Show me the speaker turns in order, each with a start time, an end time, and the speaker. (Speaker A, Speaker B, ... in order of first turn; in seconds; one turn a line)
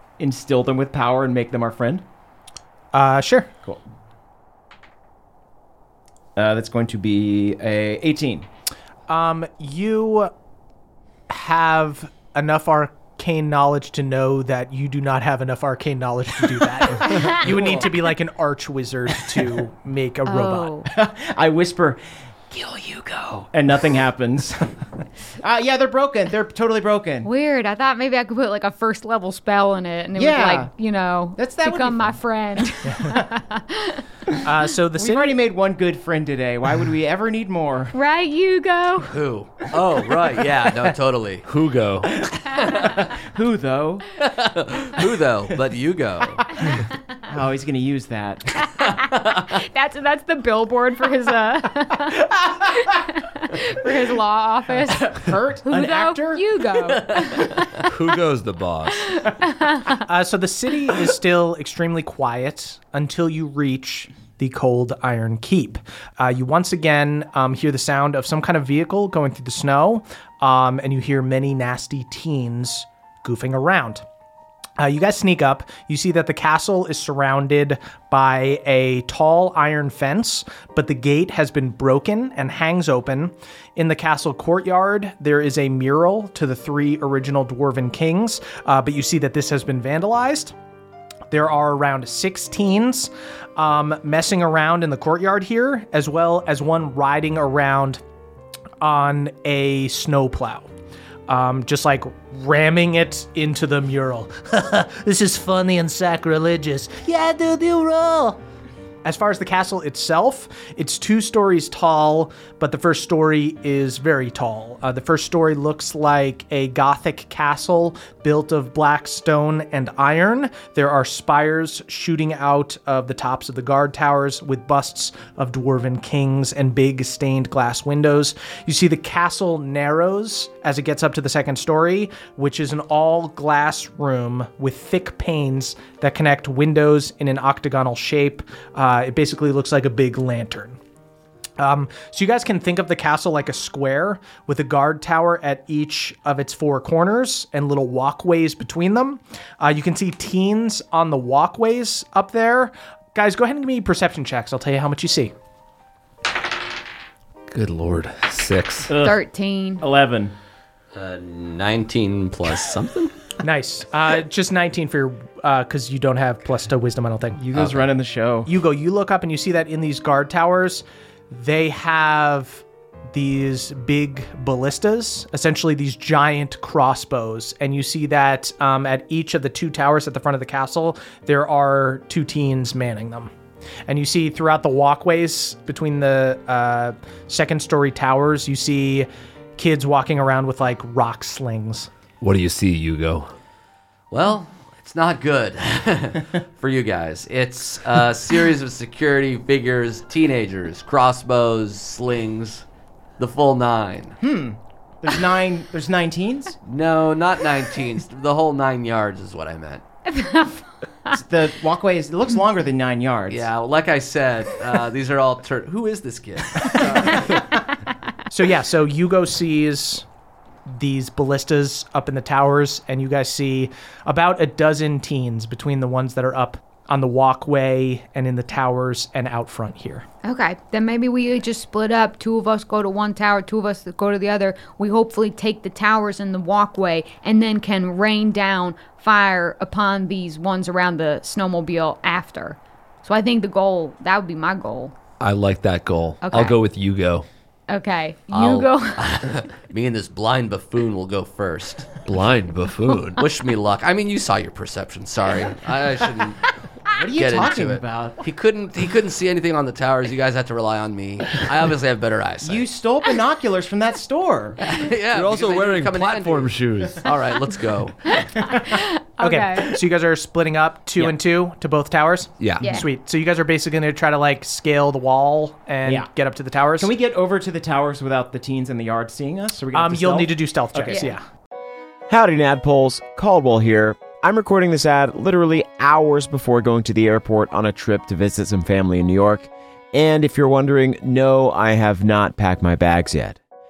Speaker A: 0.2-2.0
Speaker B: 2.9-3.5
Speaker A: 6.3-8.5
Speaker B: 9.1-10.3
Speaker B: 11.3-20.7
Speaker A: 17.3-17.9
Speaker C: 20.2-20.9
Speaker A: 20.9-22.0
Speaker A: 22.5-24.7
Speaker A: 25.4-27.3
Speaker C: 27.2-34.0
Speaker A: 30.1-30.7
Speaker A: 31.4-32.2
Speaker B: 34.4-35.4
Speaker A: 35.0-37.9
Speaker C: 37.9-39.1
Speaker D: 39.1-41.4
Speaker E: 41.4-42.1
Speaker A: 42.8-44.0
Speaker D: 44.2-46.4
Speaker A: 47.3-48.5
Speaker C: 48.8-57.6
Speaker A: 54.9-56.4
Speaker D: 57.1-57.4
Speaker E: 57.9-59.1
Speaker C: 59.1-60.0
Speaker B: 60.0-74.0
Speaker B: 74.8-90.5
Speaker B: 91.3-98.0
Speaker B: 98.8-100.7
Speaker B: 101.3-108.4
Speaker B: 109.0-140.8
Speaker B: 141.6-155.3
Speaker E: 157.5-158.9
Speaker A: 158.9-159.2
Speaker C: 158.9-159.8
Speaker A: 159.8-160.3
Speaker D: 160.9-163.1
Speaker B: 163.4-167.4
Speaker A: 167.4-168.5
Speaker B: 168.4-183.3
Speaker B: 183.9-191.9
Speaker E: 192.2-193.3
Speaker D: 194.1-202.6
Speaker D: 203.2-204.2
Speaker A: 204.2-206.6
Speaker D: 206.7-209.8
Speaker C: 210.1-210.6
Speaker A: 211.1-213.4
Speaker D: 213.3-217.4
Speaker A: 216.6-217.4
Speaker B: 218.3-220.0
Speaker B: 220.7-230.1
Speaker C: 230.2-244.9
Speaker E: 245.2-247.2
Speaker C: 246.2-246.6
Speaker C: 247.7-249.2
Speaker D: 248.3-252.0
Speaker E: 252.0-253.2
Speaker D: 253.2-256.5
Speaker A: 256.9-258.2
Speaker D: 257.1-262.7
Speaker A: 262.4-264.6
Speaker D: 264.6-267.9
Speaker E: 265.1-267.1
Speaker C: 268.1-269.8
Speaker B: 269.2-276.9
Speaker E: 272.4-272.6
Speaker C: 272.6-272.9
Speaker A: 276.8-281.0
Speaker B: 279.7-281.2
Speaker C: 280.9-281.1
Speaker F: 282.1-293.4